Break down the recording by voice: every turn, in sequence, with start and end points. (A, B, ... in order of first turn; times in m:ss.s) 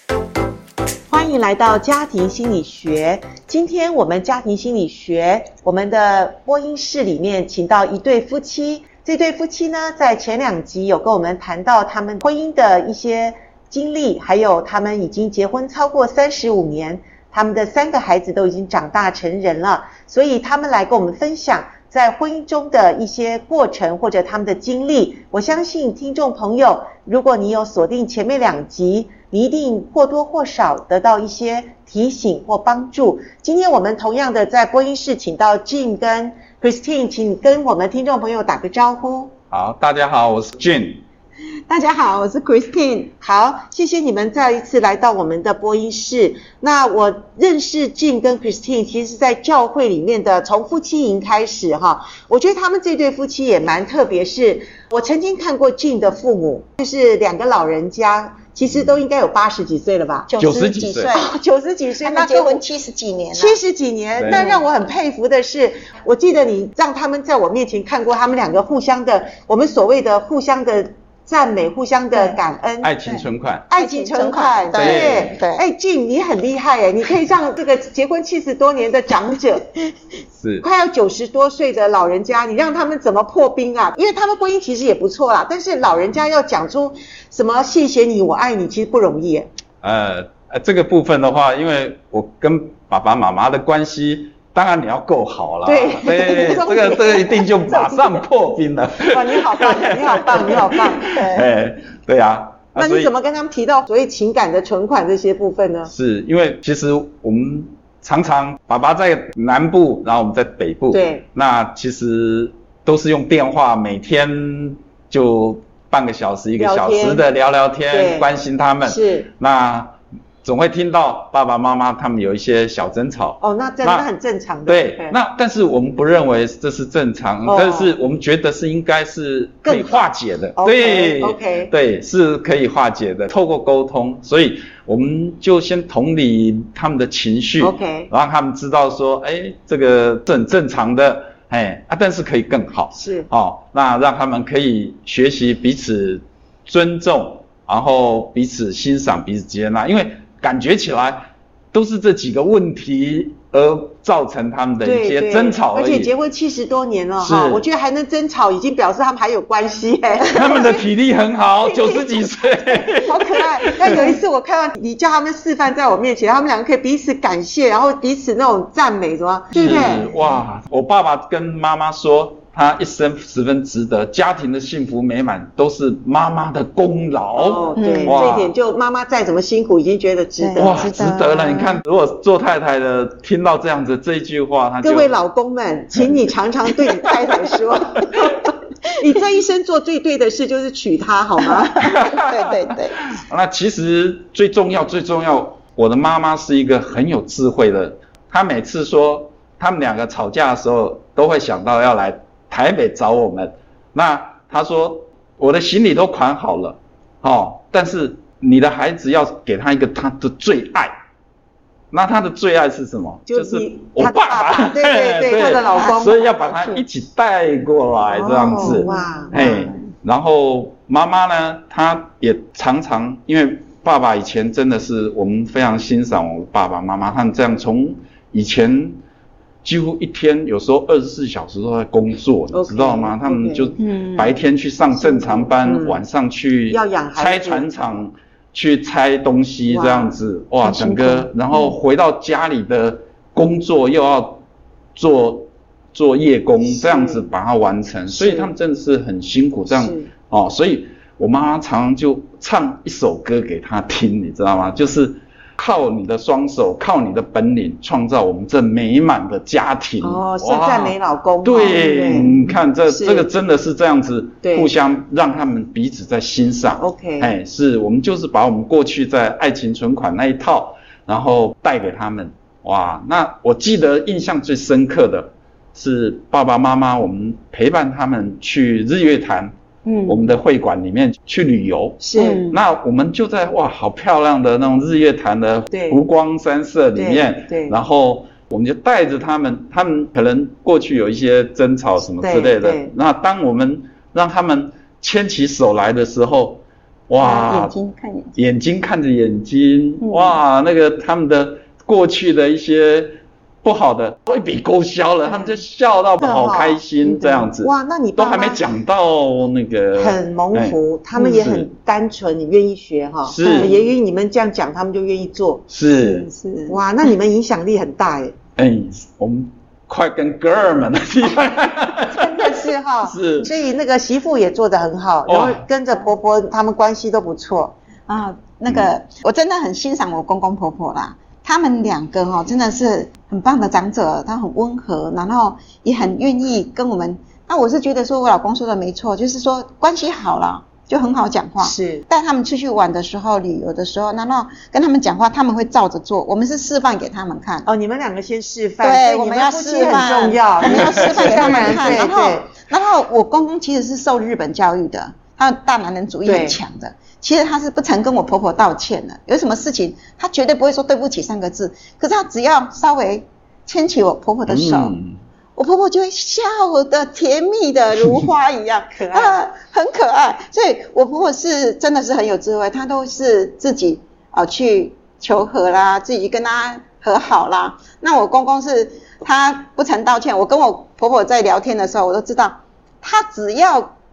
0:01.1-0:39.3 A
0:39.5-0:41.0 B
0:41.7-0:43.1 C
0:43.2-1:00.3 A
1:00.3-1:01.4 C
1:00.4-1:01.1 B
1:01.1-1:02.6 A
1:02.0-1:03.6 C
1:03.3-1:12.9 A
1:04.2-1:04.4 B
1:04.3-1:04.6 C
1:12.1-1:12.4 C
1:12.8-1:13.6 B
1:13.7-1:19.7 A
1:13.8-1:15.6 C
1:14.7-1:15.3 B
1:20.4-1:20.6 B
1:20.6-1:29.5 A
1:29.8-1:43.1 B
1:35.6-1:37.4 A
1:36.2-1:38.2 C
1:39.1-1:41.2 A
1:41.0-1:41.4 C
1:42.7-1:45.9 A
1:45.9-2:04.1 B
1:50.9-1:51.2 A
1:56.6-1:57.2 A
1:57.9-1:58.3 A
1:58.8-1:59.3 A
2:03.4-2:05.2 A
2:04.7-2:36.1 B
2:07.4-2:07.9 A
2:09.6-2:11.7 A
2:17.6-2:18.1 A
2:22.9-2:23.3 A
2:34.8-2:40.8 A
2:37.2-2:37.6 B
2:40.2-2:44.1 B
2:41.8-2:42.2 A
2:42.8-2:50.1 A
2:43.0-2:44.2 C
2:49.5-2:58.5 B
2:49.7-2:50.0 C
2:57.3-3:00.8 A
2:57.8-2:58.2 C
3:00.4-3:01.8 C
3:00.6-3:05.1 B
3:04.8-3:12.0 A
3:11.4-3:13.0 C
3:11.8-3:30.9 B
3:31.9-3:49.0 B
3:33.3-3:36.4 A
3:35.4-3:36.0 C
3:38.1-3:39.6 A
3:38.6-3:39.8 C
3:49.6-4:04.4 B
3:52.5-3:53.7 A
3:53.8-3:54.4 C
3:54.9-3:56.0 A
3:56.7-3:57.6 A
3:59.7-4:00.1 A
4:00.6-4:01.3 C
4:05.0-4:39.5 B
4:06.6-4:07.2 A
4:08.1-4:08.5 A
4:09.7-4:10.0 A
4:20.0-4:23.3 A
4:24.4-4:24.7 A
4:26.8-4:27.3 A
4:39.8-4:40.2 C
4:40.0-4:57.7 B
4:42.0-4:42.4 A
4:42.2-4:42.6 C
4:45.7-4:46.0 A
4:47.0-4:47.7 A
4:52.2-4:52.9 A
4:57.2-4:58.4 C
4:58.4-5:11.7 B
5:00.0-5:00.4 C
5:06.2-5:08.7 A
5:10.0-5:15.6 A
5:13.3-5:13.7 B
5:13.4-5:13.8 C
5:15.7-5:16.3 B
5:16.0-5:16.8 C
5:16.7-5:18.3 A
5:18.6-5:23.5 B
5:22.0-5:27.7 A
5:25.3-5:25.6 B
5:28.1-5:47.7 C
5:41.6-5:42.0 A
5:47.6-5:52.5 A
5:48.8-6:04.9 C
5:51.0-5:52.0 B
5:56.2-5:56.6 A
6:04.5-6:05.2 B
6:05.6-6:23.9 C
6:08.9-6:09.4 A